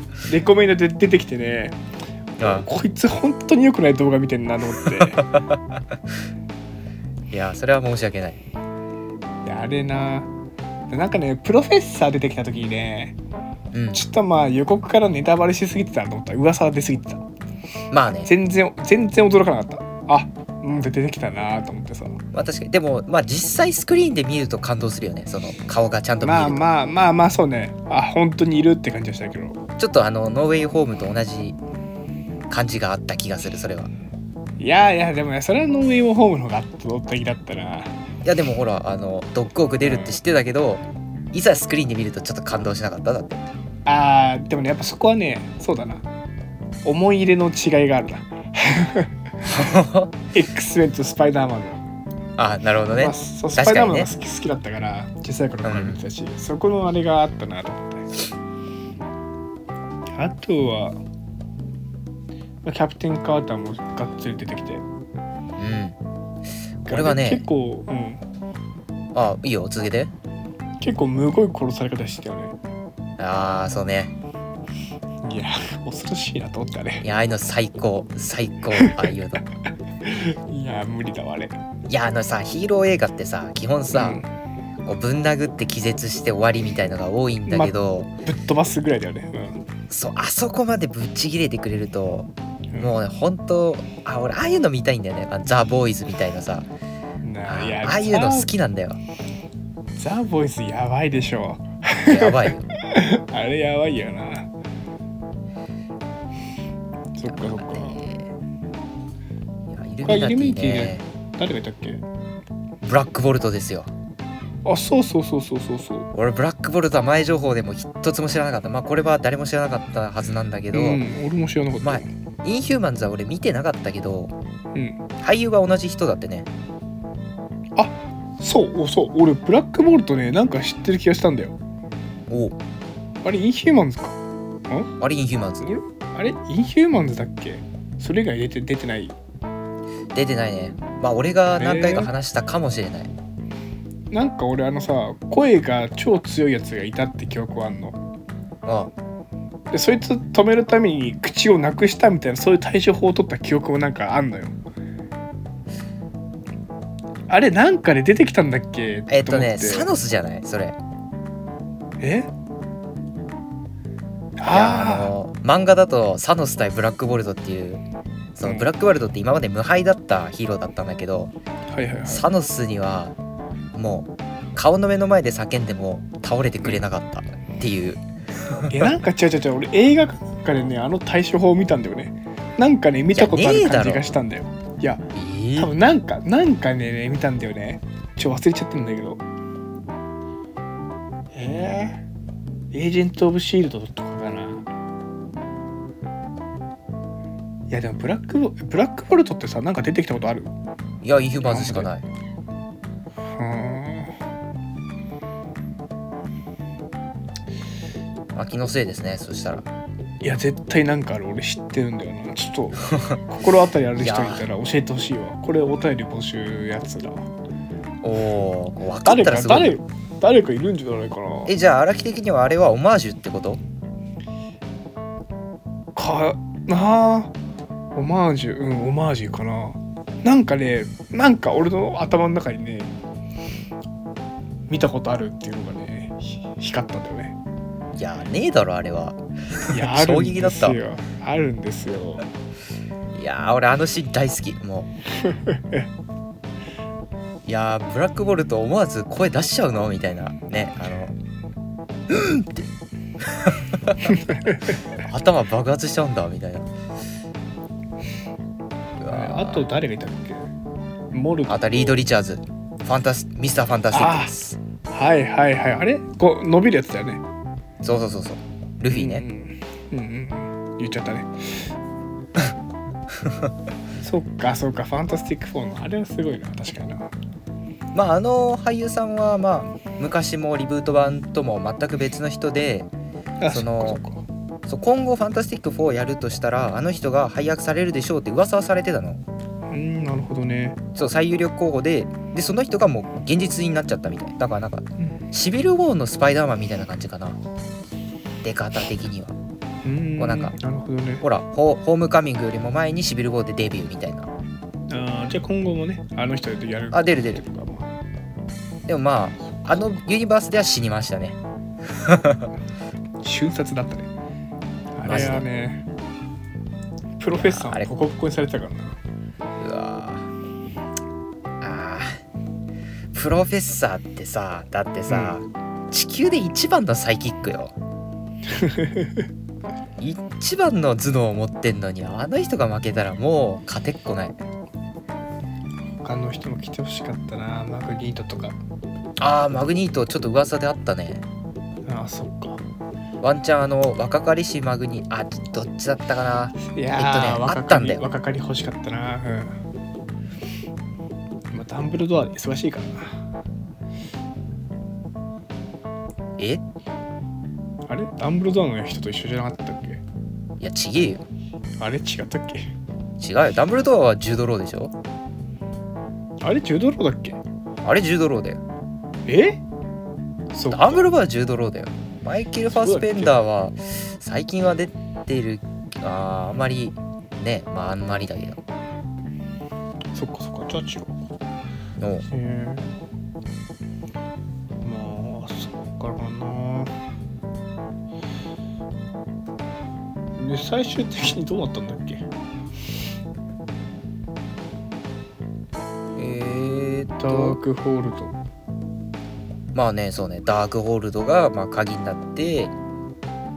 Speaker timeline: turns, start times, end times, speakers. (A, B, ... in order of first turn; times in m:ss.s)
0:00.2-0:01.8 A
0:02.4-0:05.2 A
0:02.4-0:02.7 B
0:05.0-0:05.8 B
0:07.3-0:08.4 B
0:09.4-0:10.3 A
0:10.9-0:13.2 A
0:13.7-0:14.0 B
0:13.9-0:17.2 A
0:17.9-0:18.3 B
0:18.2-0:22.2 A
0:22.3-0:26.7 B
0:26.2-0:29.6 A
0:29.8-0:31.6 B
0:32.5-0:33.9 B
0:34.6-0:37.9 A
0:38.2-0:43.4 B
0:39.8-0:40.2 A
0:43.8-0:46.0 A
0:46.8-0:49.6 A
0:49.4-0:50.1 B
0:50.3-0:51.8 A
0:52.4-0:54.1 B
0:52.9-0:58.1 A
0:55.6-0:56.0 B
1:00.1-1:01.0 A
1:02.6-1:04.8 A
1:05.6-1:06.0 B
1:06.8-1:07.4 B
1:06.8-1:08.2 A
1:09.1-1:10.1 B
1:10.8-1:12.5 A
1:13.2-1:14.1 B
1:15.2-1:17.0 A
1:17.0-1:19.4 B
1:20.0-1:21.5 A
1:21.9-1:24.2 B
1:23.9-1:24.3 A
1:24.8-1:28.1 B
1:27.5-1:27.7 A
1:28.2-1:29.6 A
1:29.9-1:36.7 B
1:37.2-1:38.5 A
1:37.4-1:39.0 B
1:40.0-1:44.5 A
1:42.0-1:42.7 B
1:47.2-1:48.0 A
1:47.3-1:48.3 B
1:49.7-1:51.0 B
1:50.0-1:52.0 A
1:52.8-1:53.9 B
1:54.6-1:56.1 A
1:56.1-2:01.0 B
2:00.7-2:02.1 A
2:01.8-2:04.3 B
2:04.7-2:05.0 A
2:05.2-2:06.5 B
2:07.8-2:11.6 A
2:12.3-2:12.6 B
2:13.2-2:14.2 A
2:15.0-2:15.7 B
2:15.6-2:19.2 A
2:20.1-2:23.1 B
2:21.6-2:22.1 A
2:24.1-2:28.0 A
2:28.6-2:28.9 B
2:29.7-2:34.5 A
2:37.3-2:39.9 A
2:39.1-2:40.8 B
2:42.0-2:42.3 A
2:44.4-2:45.1 A
2:44.5-2:47.8 B
2:48.4-2:51.3 B
2:48.4-2:48.7 A
2:51.7-2:52.2 A
2:52.0-2:53.1 B
2:53.7-2:58.9 B
2:58.7-3:09.2 A
3:03.1-3:04.1 B
3:05.1-3:05.7 B
3:11.3-3:12.0 A
3:12.7-3:14.6 A
3:17.7-3:20.5 A
3:21.0-3:22.0 B
3:21.4-3:21.9 A
3:23.3-3:24.1 A
3:28.3-3:29.7 B
3:30.2-3:37.3 A
3:34.0-3:34.4 B
3:38.0-3:39.8 B
3:39.0-3:41.5 A
3:41.5-3:43.6 B
3:46.0-3:47.3 A
3:47.9-3:52.9 A
3:54.7-3:57.4 A
3:58.0-4:00.8 B
3:59.7-4:02.2 A
4:03.1-4:04.9 B
4:05.2-4:05.9 A
4:07.4-4:11.1 B
4:12.1-4:12.7 B
4:13.2-4:14.3 B
4:14.1-4:14.8 A
4:15.0-4:16.7 B
4:19.0-4:19.6 B
4:19.0-4:20.5 A
4:21.1-4:22.0 A
4:21.5-4:24.6 B
4:23.9-4:24.3 A
4:24.9-4:27.2 A
4:27.8-4:29.2 B
4:28.9-4:31.7 A
4:33.2-4:33.5 B
4:34.0-4:37.1 A
4:37.9-4:42.9 B
4:43.4-4:44.2 A
4:43.5-4:44.0 B
4:44.7-4:49.2 B
4:49.7-4:50.8 A
4:50.9-4:57.4 B
4:58.4-4:59.4 B
4:59.8-5:01.2 A
5:00.2-5:00.6 B
5:01.2-5:04.3 B
5:04.9-5:07.9 A
5:06.9-5:07.4 B
5:08.8-5:12.5 B
5:09.6-5:09.8 A
5:13.2-5:14.1 A
5:14.9-5:15.8 A
5:15.0-5:15.4 B
5:17.2-5:19.0 A
5:17.3-5:17.9 B
5:19.6-5:20.3 B
5:21.6-5:22.2 B
5:23.1-5:27.7 B
5:25.1-5:25.4 A
5:28.5-5:29.2 A
5:30.0-5:34.4 B
5:36.0-5:38.6 A
5:39.2-5:41.2 B
5:41.8-5:42.6 A
5:43.2-5:48.1 B
5:46.6-5:49.6 A
5:51.5-5:53.2 A
5:56.4-5:56.6 B
5:57.9-6:00.0 A
6:00.6-6:01.2 B
6:01.8-6:02.7 A
6:03.2-6:04.9 B
6:06.4-6:07.4 A
6:07.8-6:08.6 B
6:09.3-6:09.6 A
6:10.5-6:11.0 A
6:10.7-6:18.6 B
6:12.7-6:13.3 A
6:20.1-6:21.2 A
6:22.0-6:22.2 B
6:22.3-6:22.9 A
6:24.8-6:26.9 A
6:30.4-6:32.2 A
6:36.2-6:37.6 B
6:37.2-6:38.3 A
6:39.7-6:42.7 B